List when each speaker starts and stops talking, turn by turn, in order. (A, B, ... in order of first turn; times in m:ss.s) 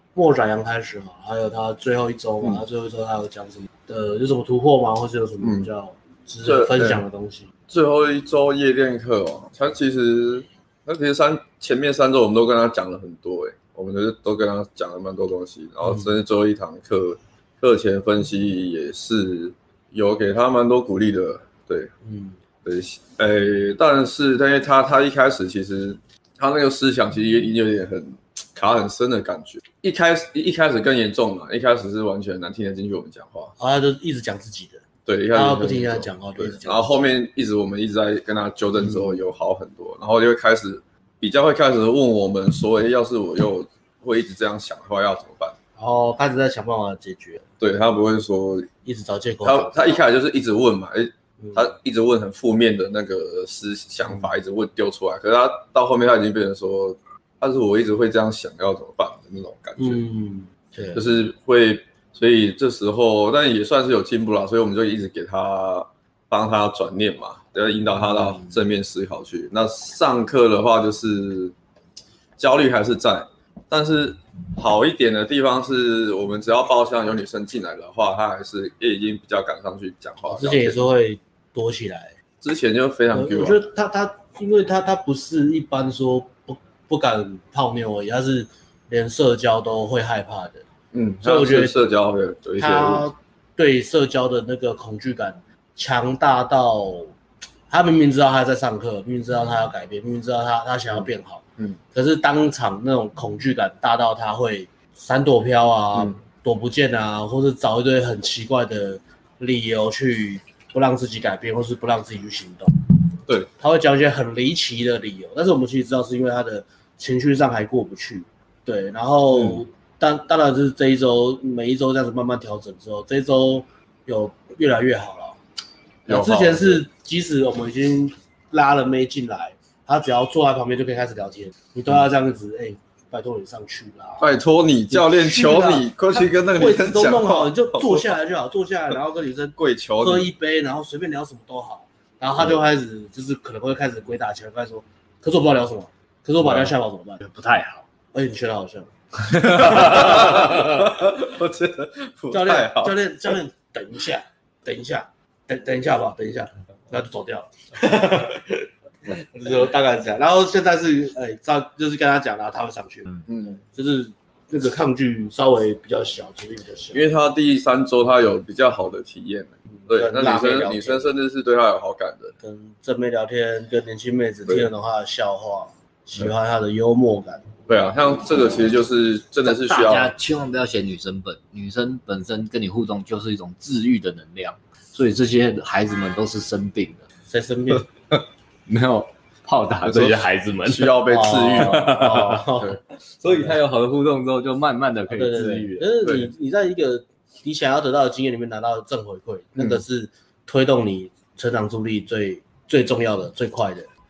0:00.2-0:07.5 A
0:05.4-0:05.7 B
0:06.4-0:07.0 B
0:07.7-0:21.9 B
0:22.0-0:22.4 A
0:22.6-0:33.5 B
0:33.6-0:37.0 A
0:35.1-0:45.6 B
0:38.8-0:39.2 A
0:45.8-0:47.4 A
0:47.6-0:48.7 B
0:48.8-0:50.0 A
0:49.4-1:00.0 B
0:59.8-1:01.1 A
1:00.9-1:11.6 B
1:08.1-1:08.5 A
1:12.4-1:20.8 B
1:20.3-1:22.1 A
1:22.4-1:23.6 B
1:23.1-1:30.6 A
1:30.9-1:33.1 B
1:31.2-1:31.8 A
1:32.6-1:37.1 A
1:37.7-1:52.8 A
1:53.6-2:05.4 A
1:59.3-1:59.6 B
2:06.1-2:06.8 B
2:06.1-2:14.3 A
2:14.2-2:18.2 B
2:14.9-2:30.9 A
2:19.6-2:20.3 B
2:26.4-2:26.7 B
2:29.3-2:33.0 B
2:32.3-2:47.0 A
2:43.3-2:43.6 B
2:46.9-2:52.4 B
2:49.8-2:51.1 A
2:52.4-2:57.5 A
2:57.7-3:00.1 B
2:59.4-3:07.0 C
3:07.3-3:07.9 A
3:08.7-3:12.5 C
3:09.8-3:12.8 B
3:11.1-3:13.6 A
3:13.2-3:15.9 C
3:15.1-3:23.9 A
3:16.0-3:16.3 B
3:19.6-3:19.8 B